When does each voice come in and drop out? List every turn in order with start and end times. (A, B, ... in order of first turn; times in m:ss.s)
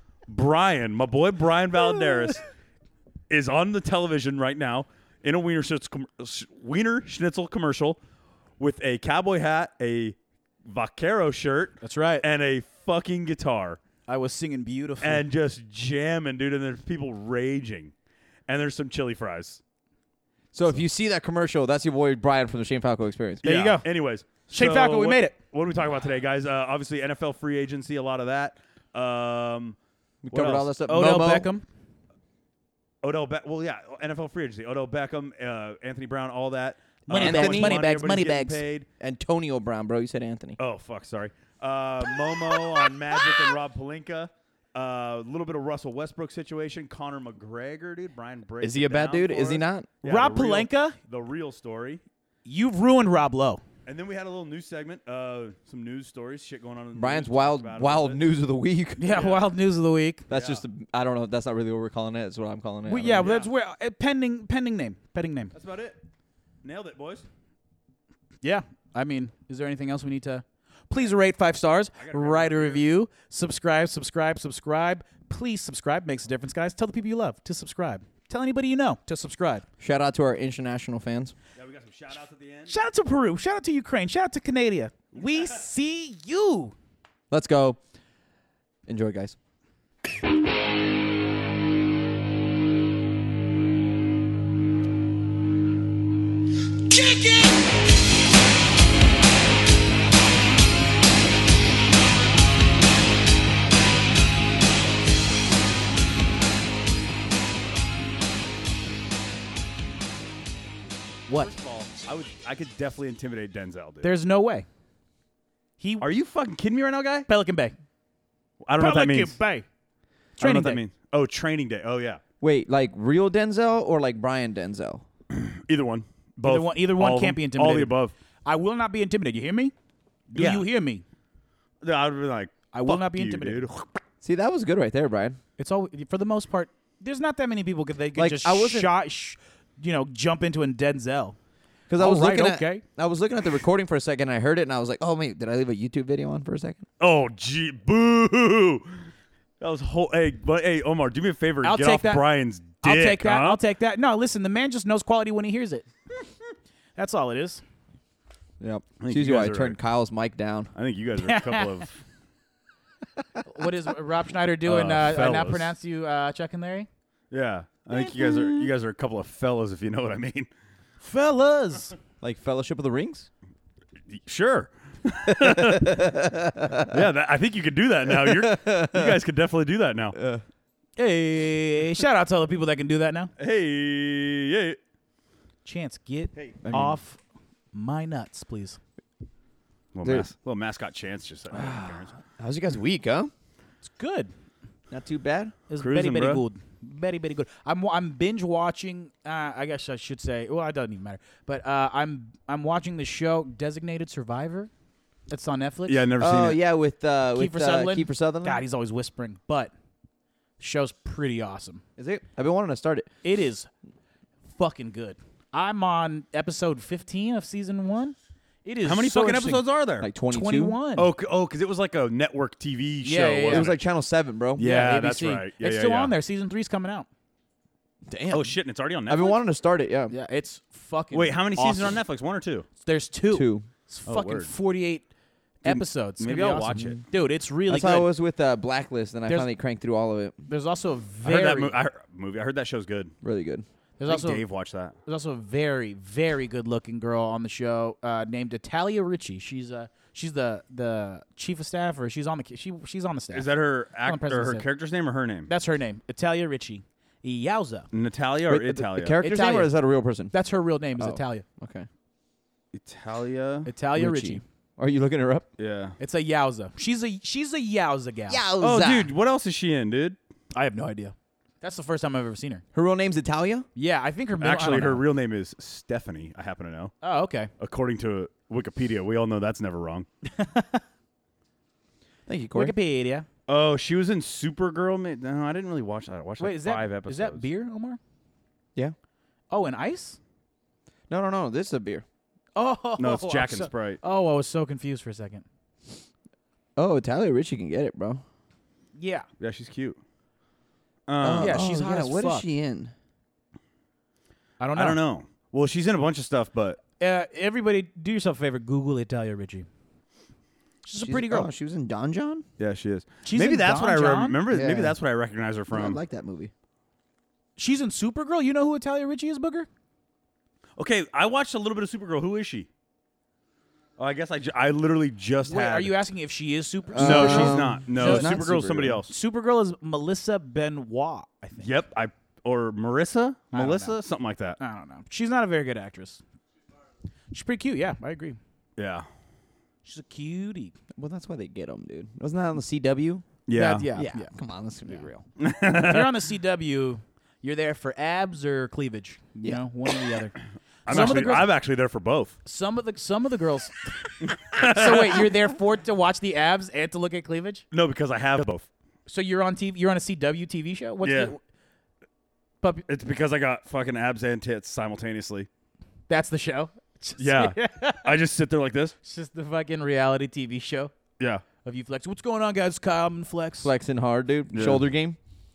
0:00.3-0:02.4 A
0:03.3-0:08.0 A
0:08.6-0:13.8 A
0:11.8-0:12.3 B
0:14.1-0:15.2 B
0:15.0-0:17.9 A
0:18.5-0:19.6 A
0:20.5-0:23.4 C
0:23.4-0:23.9 B
0:23.4-0:29.8 A
0:24.5-0:25.4 B
0:30.2-0:31.5 C
0:30.3-0:30.7 A
0:30.9-0:31.6 B
0:33.0-0:38.9 A
0:37.1-0:38.5 B
0:37.1-0:40.6 C
0:40.6-0:52.0 A
0:48.6-0:49.9 C
0:50.0-0:51.0 B
0:52.5-0:53.6 B
0:53.9-0:58.2 A
0:56.9-0:59.2 C
0:59.0-1:00.3 B
0:59.1-0:59.4 A
1:00.3-1:03.2 C
1:00.3-1:00.6 A
1:02.9-1:05.5 B
1:03.0-1:03.5 A
1:05.5-1:06.0 A
1:06.6-1:07.3 A
1:08.4-1:19.6 B
1:12.0-1:12.8 A
1:19.8-1:21.3 C
1:21.6-1:22.7 A
1:22.7-1:26.7 B
1:27.3-1:27.8 C
1:28.9-1:29.4 C
1:51.4-1:54.1 A
1:54.0-1:54.7 B
1:55.8-1:56.1 B
1:56.0-1:57.3 A
1:57.3-1:57.8 B
1:58.6-1:59.4 A
1:58.8-1:59.7 B
2:00.4-2:00.8 B
2:00.4-2:02.2 A
2:02.4-2:05.0 C
2:05.3-2:08.1 A
2:06.4-2:09.7 B
2:10.3-2:11.0 B
2:10.4-2:10.7 A
2:11.8-2:13.7 A
2:12.7-2:13.8 B
2:14.2-2:15.4 C
2:15.6-2:21.4 B
2:18.2-2:18.9 C
2:21.9-2:26.8 C
2:22.0-2:22.8 B
2:27.0-2:29.0 A
2:29.6-2:33.6 A
2:31.6-2:32.2 B
2:32.8-2:35.9 B
2:37.0-2:37.6 B
2:38.6-2:40.7 C
2:39.0-2:39.8 A
2:40.8-2:42.0 A
2:41.2-2:41.9 B
2:43.4-2:46.9 B
2:44.6-2:45.7 A
2:47.3-2:50.5 A
2:47.9-2:48.6 B
2:51.0-2:51.9 B
2:52.2-2:53.3 C
2:54.1-2:56.0 A
2:55.3-2:57.1 C
2:56.8-3:00.2 A
2:58.1-2:59.2 C
3:00.2-3:00.4 C
3:01.0-3:03.3 B
3:03.4-3:04.8 A
3:05.6-3:07.2 B
3:06.3-3:06.9 A
3:06.6-3:07.0 C
3:07.7-3:08.8 B
3:09.9-3:12.1 A
3:10.0-3:10.3 C
3:11.5-3:13.3 C
3:13.8-3:14.3 B
3:14.9-3:15.6 C
3:15.7-3:24.7 B
3:15.8-3:16.4 A
3:25.3-3:26.0 B
3:25.9-3:26.6 A
3:26.2-3:28.6 C
3:27.4-3:29.7 B
3:30.6-3:31.8 B
3:32.0-3:33.1 C
3:33.2-3:33.7 B
3:34.6-3:39.6 B
3:38.8-3:40.1 A
3:40.0-3:40.8 C
3:40.3-3:41.1 B
3:41.0-3:43.8 A
3:43.0-3:43.7 B
3:43.5-3:44.6 C
3:44.6-3:46.2 A
3:44.6-3:47.1 B
3:48.1-3:48.5 C
3:48.3-3:49.4 A
3:49.1-3:50.1 C
3:50.1-3:52.0 B
3:51.1-3:52.7 A
3:52.8-3:55.1 B
3:53.3-3:53.7 C
3:54.1-3:54.5 A
3:55.6-3:57.0 A
3:55.6-3:58.1 B
3:57.7-4:00.4 C
4:00.5-4:01.8 B
4:01.2-4:03.1 A
4:03.2-4:03.6 C
4:04.0-4:04.4 B
4:04.1-4:05.0 A
4:05.1-4:13.5 B
4:13.3-4:15.5 A
4:14.0-4:14.6 B
4:15.5-4:17.9 B
4:17.9-4:19.2 A
4:18.5-4:20.3 C
4:19.2-4:19.8 B
4:20.3-4:21.4 B
4:21.0-4:21.9 C
4:22.7-4:23.7 A
4:23.7-4:24.4 B
4:24.0-4:25.5 C
4:25.6-4:26.0 A
4:26.0-4:28.4 B
4:28.3-4:29.1 C
4:28.6-4:30.2 A
4:30.5-4:32.6 B
4:32.7-4:33.7 C
4:33.8-4:35.0 B
4:34.4-4:36.9 A
4:37.0-4:37.5 B
4:37.6-4:40.1 A
4:40.2-4:40.8 B
4:42.3-4:42.7 C
4:42.6-4:43.3 B
4:43.5-4:47.5 A
4:46.4-4:48.0 B
4:49.5-4:50.2 B
4:51.1-4:52.0 C
4:52.6-4:55.4 B
4:53.0-4:54.0 A
4:56.8-4:58.2 C
4:59.0-4:59.3 B
4:59.4-5:00.0 A
5:01.1-5:01.6 A
5:01.2-5:02.9 C
5:01.4-5:02.5 B
5:04.6-5:05.0 B
5:04.8-5:06.8 A
5:07.0-5:09.7 B
5:10.9-5:11.5 B
5:11.0-5:12.4 C
5:12.6-5:16.0 A
5:13.2-5:14.4 B
5:14.5-5:15.0 C
5:15.7-5:16.5 C
5:17.6-5:19.7 B
5:20.8-5:22.7 A
5:24.0-5:25.9 A
5:25.5-5:28.3 B
5:26.9-5:29.0 C
5:27.0-5:29.1 A
5:29.1-5:31.7 B
5:31.6-5:34.6 A
5:33.5-5:34.0 B
5:34.6-5:36.2 B
5:37.3-5:38.4 B
5:38.8-5:39.1 A
5:39.8-5:40.7 B
5:41.0-5:43.4 C
5:43.5-5:43.9 A
5:43.6-5:44.3 B
5:43.9-5:45.3 C
5:45.4-5:46.2 A
5:45.7-5:51.5 B
5:50.9-5:52.4 A
5:52.4-5:57.6 B
5:54.3-5:55.3 A
5:57.7-5:58.7 A
5:59.1-6:01.4 B
6:01.0-6:01.3 A
6:02.9-6:05.5 A
6:06.1-6:08.1 B
6:07.2-6:09.0 A
6:09.0-6:10.9 B
6:11.2-6:11.4 A
6:11.6-6:13.7 B
6:13.6-6:15.2 C
6:14.5-6:14.8 A